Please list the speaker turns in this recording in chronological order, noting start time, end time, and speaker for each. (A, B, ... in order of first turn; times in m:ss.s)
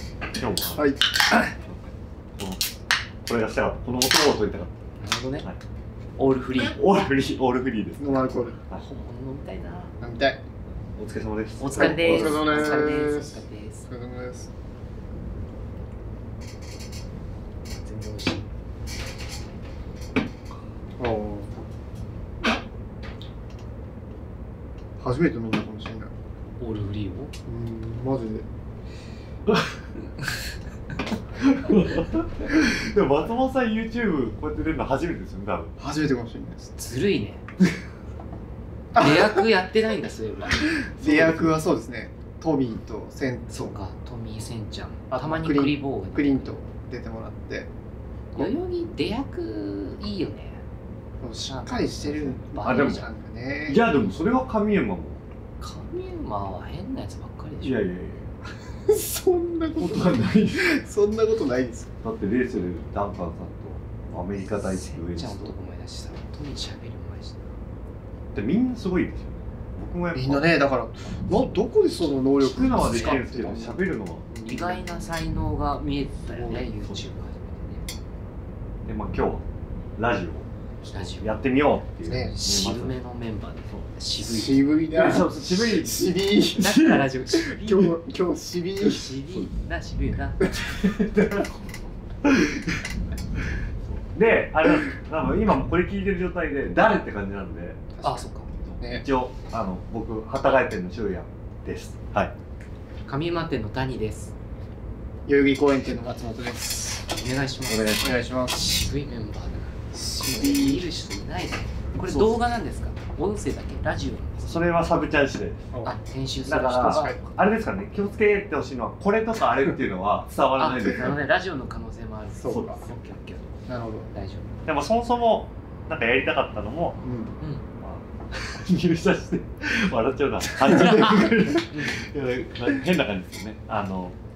0:00.3-0:00.9 A
0:00.7-0:01.1 B
0:01.5-0:02.7 A
0:03.2-0:04.7 A
0:05.0-0:05.4 C
0:06.2-0:06.8 C
0:06.6-0:08.8 A
0:08.0-0:08.6 B
0:08.8-0:09.9 C
0:10.0-0:10.4 B
0:10.9-0:12.9 A
0:11.6-0:13.9 C
0:11.7-0:14.5 B
0:17.7-0:18.5 C
0:21.0-0:21.5 B
0:25.0-0:26.1 B
0:26.6-0:27.3 C
0:27.4-0:28.5 B
0:31.4-0:35.8 A
0:35.8-0:36.7 B
0:36.8-0:37.4 C
0:38.9-0:40.7 C
0:38.9-0:39.3 B
0:40.9-0:43.8 B
0:41.0-0:41.5 A
0:43.5-0:46.6 C
0:45.1-0:47.7 B
0:48.3-0:50.6 C
0:51.2-0:53.8 B
0:51.5-0:53.1 C
0:52.2-0:53.0 A
0:53.6-0:55.2 A
0:55.6-0:57.8 C
0:57.6-0:58.4 A
0:58.9-1:01.9 B
0:59.8-1:00.8 A
1:02.0-1:05.5 A
1:04.4-1:07.5 C
1:08.3-1:10.5 A
1:10.1-1:15.0 B
1:12.4-1:14.3 A
1:12.8-1:13.2 C
1:14.4-1:17.8 C
1:16.3-1:16.7 B
1:18.8-1:19.4 A
1:20.0-1:23.0 A
1:20.8-1:21.4 C
1:22.0-1:22.4 B
1:22.1-1:24.8 C
1:24.2-1:29.0 B
1:24.9-1:26.1 A
1:26.6-1:27.9 C
1:28.8-1:30.7 C
1:30.7-1:31.6 A
1:32.2-1:32.8 A
1:33.8-1:37.9 A
1:37.9-1:38.3 B
1:38.0-1:38.5 C
1:38.5-1:42.3 A
1:43.0-1:44.3 C
1:45.3-1:47.1 B
1:47.1-1:54.7 C
1:47.7-1:48.1 A
1:48.0-1:48.6 B
1:49.9-1:50.9 B
1:52.0-1:52.4 B
1:54.4-1:55.7 A
1:55.8-1:57.3 C
1:56.5-2:01.1 A
1:56.9-1:57.2 B
2:00.6-2:04.5 C
2:02.4-2:02.8 B
2:03.7-2:04.1 B
2:04.6-2:07.0 A
2:07.0-2:07.4 B
2:07.8-2:14.2 A
2:10.7-2:11.1 B
2:11.7-2:12.0 C